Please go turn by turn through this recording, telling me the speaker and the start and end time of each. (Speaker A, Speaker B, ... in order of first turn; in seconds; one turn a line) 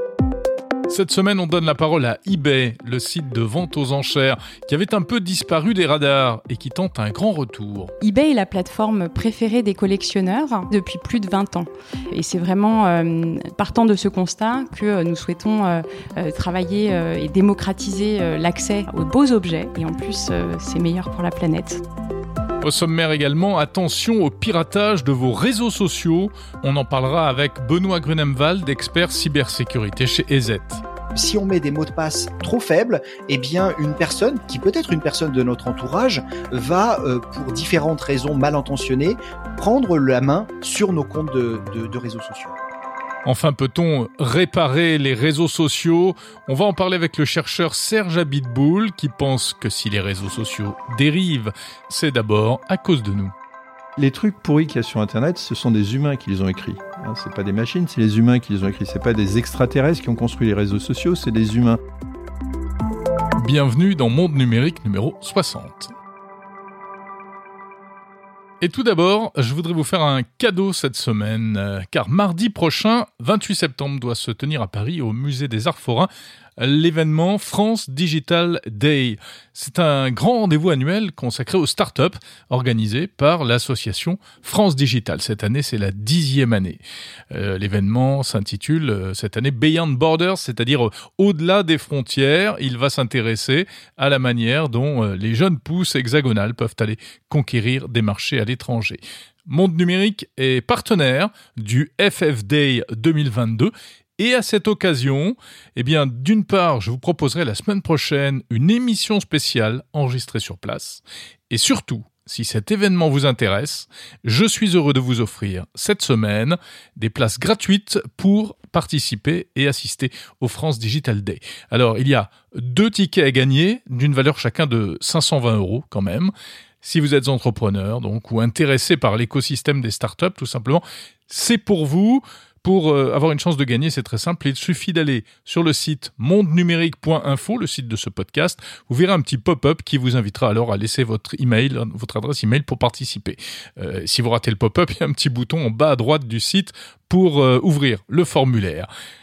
Speaker A: 0.9-7.9
Speaker B: 8.0-21.8
Speaker A: 22.6-30.8
Speaker C: 31.1-42.5
Speaker A: 43.3-53.3
Speaker D: 54.0-61.8
Speaker A: 63.4-65.9
Speaker A: 68.6-86.8
Speaker A: 87.3-148.9